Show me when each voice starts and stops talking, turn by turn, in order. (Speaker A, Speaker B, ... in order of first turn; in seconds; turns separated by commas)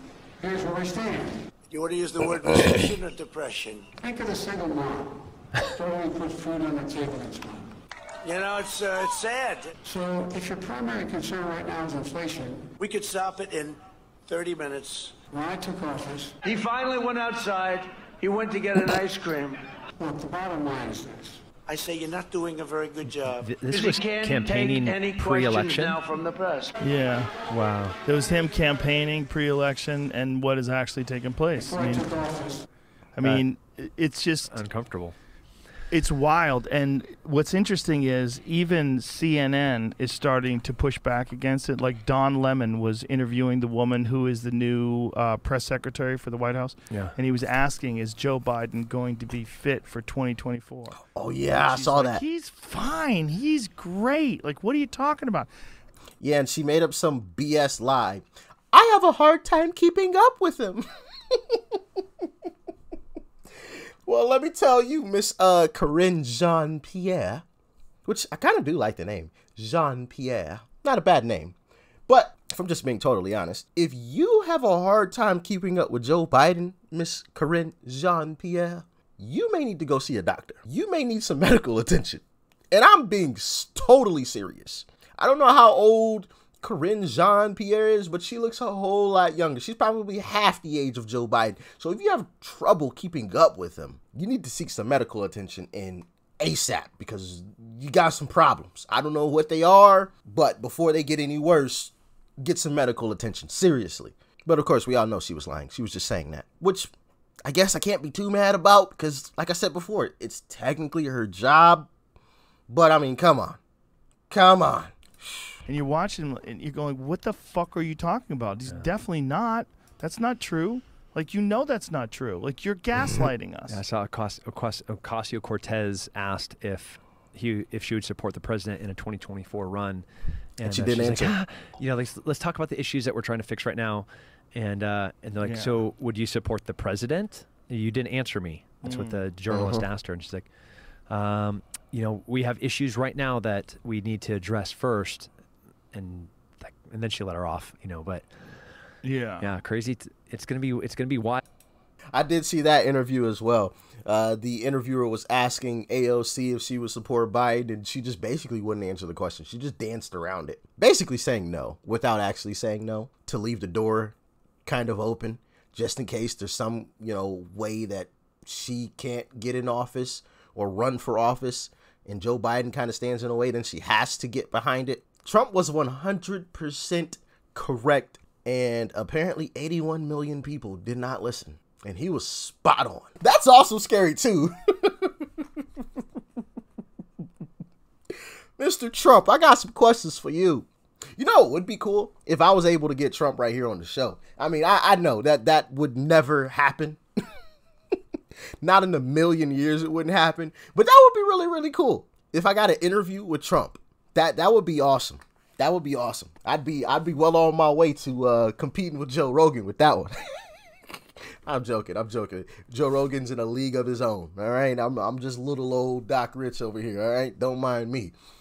Speaker A: 0.4-1.4, Speaker B: 1.7-3.9, Speaker A: 4.0-7.7, Speaker B: 8.2-9.8, Speaker A: 9.8-12.7, Speaker B: 12.8-15.2, Speaker A: 15.3-16.3, Speaker B: 16.4-19.6, Speaker A: 20.0-21.4, Speaker B: 21.6-26.8, Speaker C: 23.0-26.0, Speaker D: 26.8-27.3, Speaker C: 27.5-28.0, Speaker D: 28.1-32.1, Speaker A: 31.7-32.6, Speaker D: 33.2-34.6, Speaker C: 34.5-35.2, Speaker D: 35.9-55.5, Speaker E: 51.1-52.2, Speaker E: 56.2-61.8, Speaker E: 64.1-67.4, Speaker E: 68.1-71.5, Speaker E: 72.1-106.9, Speaker E: 107.5-111.9, Speaker E: 112.7-113.6, Speaker E: 114.3-115.1, Speaker D: 115.7-123.8, Speaker C: 123.7-140.5, Speaker E: 130.6-131.4, Speaker D: 135.4-135.8, Speaker D: 138.8-139.2, Speaker E: 139.5-139.9, Speaker C: 141.1-145.3, Speaker C: 145.9-148.6, Speaker D: 149.0-149.5, Speaker C: 149.4-151.4, Speaker E: 152.1-185.1, Speaker E: 188.6-197.0, Speaker E: 198.6-210.1, Speaker E: 211.5-218.2